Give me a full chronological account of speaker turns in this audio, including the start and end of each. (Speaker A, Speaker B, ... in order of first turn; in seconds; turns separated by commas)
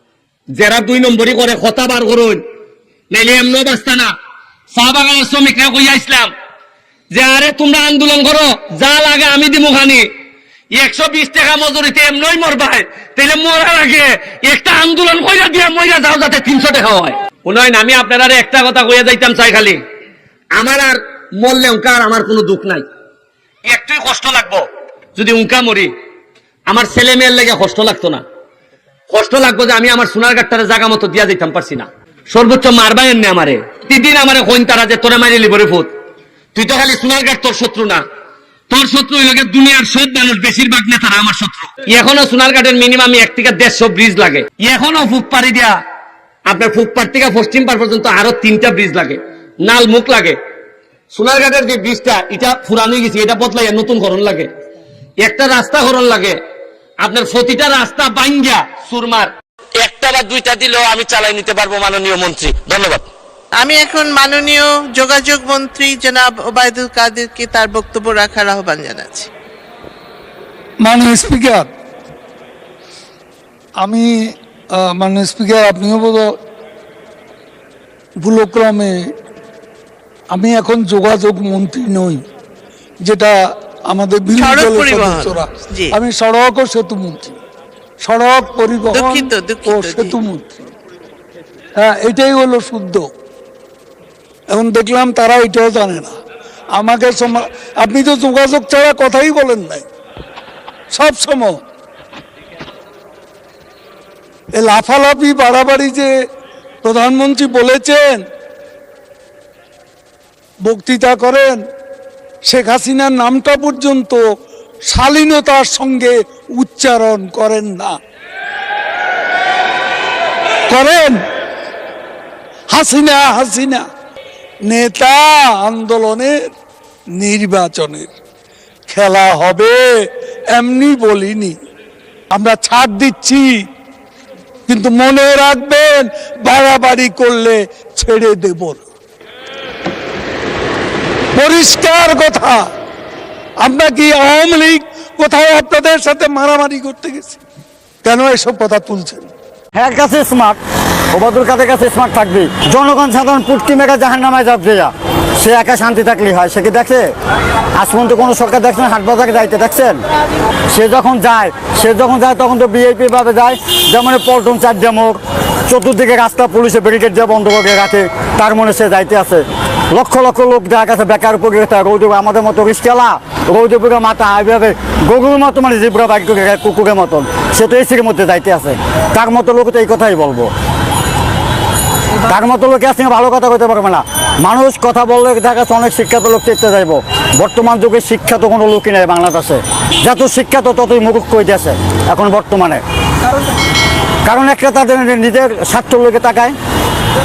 Speaker A: 0.5-2.4, Speaker A: 3.1-4.1, Speaker A: 4.7-6.3, Speaker A: 7.1-10.1, Speaker A: 10.7-19.8, Speaker A: 20.5-22.8, Speaker A: 23.7-24.6, Speaker A: 25.2-25.9, Speaker A: 26.7-28.2, Speaker A: 29.1-35.9, Speaker A: 36.5-38.0, Speaker A: 38.7-45.8, Speaker A: 46.5-50.4, Speaker A: 51.1-54.5, Speaker A: 55.2-56.4, Speaker A: 57.0-63.0, Speaker B: 63.5-69.3, Speaker C: 70.8-71.7, Speaker C: 73.8-74.1, Speaker C: 74.8-76.3, Speaker C: 78.2-79.0, Speaker C: 80.3-82.2, Speaker C: 83.0-83.3, Speaker C: 83.9-87.3, Speaker B: 84.3-85.9, Speaker C: 88.0-90.6, Speaker B: 88.9-90.2, Speaker C: 91.8-93.1, Speaker C: 94.5-96.1, Speaker C: 96.7-99.8, Speaker C: 100.9-101.5, Speaker C: 104.5-106.1, Speaker C: 106.8-108.2, Speaker C: 110.7-111.6, Speaker C: 112.5-114.2, Speaker C: 114.8-117.9, Speaker C: 120.7-121.2, Speaker C: 122.7-123.8, Speaker C: 124.7-126.4, Speaker C: 127.2-128.1, Speaker C: 128.9-129.9, Speaker C: 130.5-131.6, Speaker C: 132.3-133.5, Speaker C: 134.7-138.8, Speaker C: 141.3-142.6, Speaker C: 143.6-147.4, Speaker C: 148.0-149.3, Speaker D: 149.7-150.6, Speaker D: 151.1-157.1, Speaker D: 157.8-160.0, Speaker D: 160.7-180.5, Speaker D: 182.2-192.8, Speaker D: 194.2-196.6